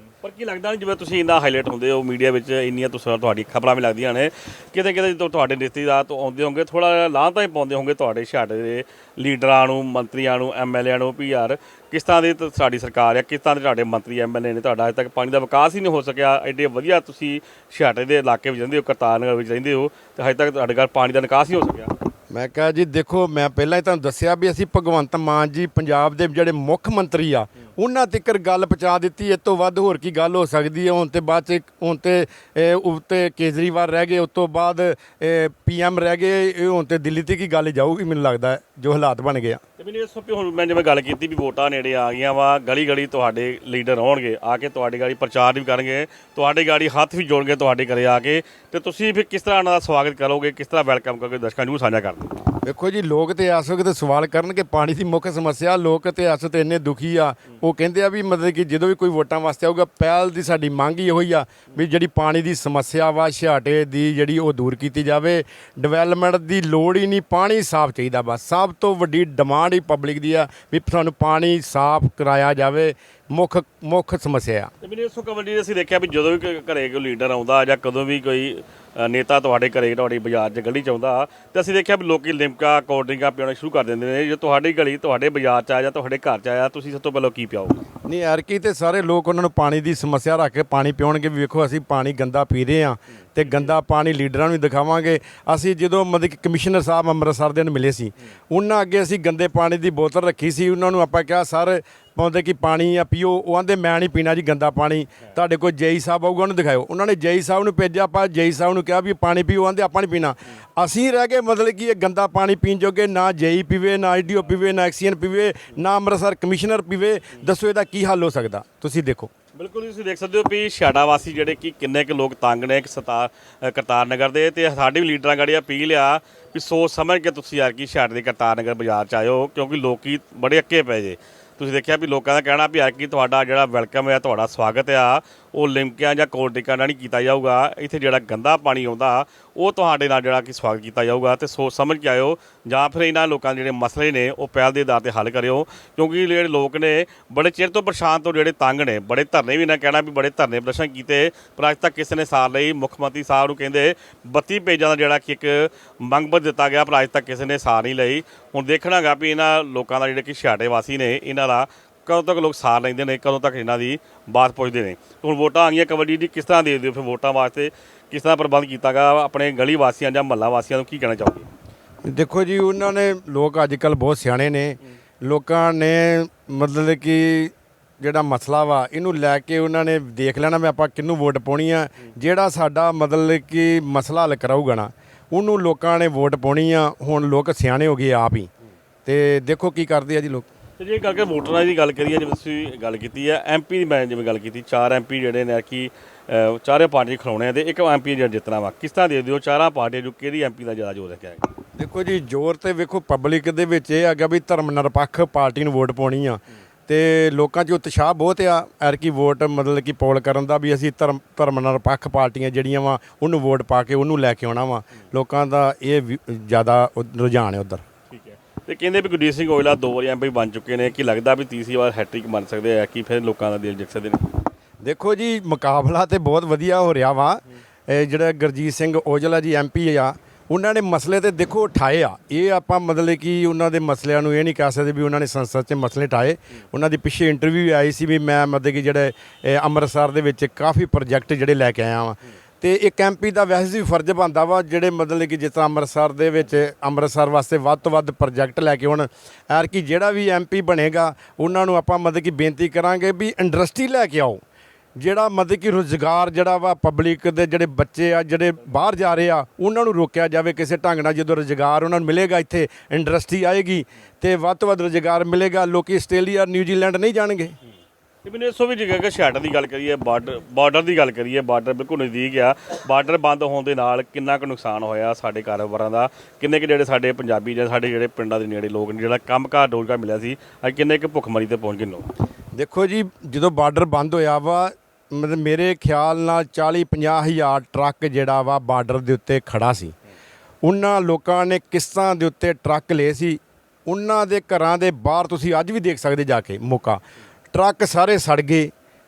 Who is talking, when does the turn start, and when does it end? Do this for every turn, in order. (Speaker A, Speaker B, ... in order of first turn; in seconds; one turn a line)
Speaker A: 0.2-21.9
Speaker B: 22.3-39.6
Speaker A: 39.8-52.4
Speaker B: 52.6-74.7
Speaker A: 74.8-87.8
Speaker B: 88.0-119.3
Speaker A: 119.6-171.5
Speaker B: 172.1-188.5
Speaker B: 189.1-190.5
Speaker A: 190.8-201.5
Speaker B: 201.8-217.8
Speaker A: 218.1-224.3
Speaker B: 224.8-254.4
Speaker B: 255.0-267.6
Speaker A: 268.2-282.1
Speaker B: 282.6-289.9
Speaker B: 290.6-297.0
Speaker B: 297.5-298.7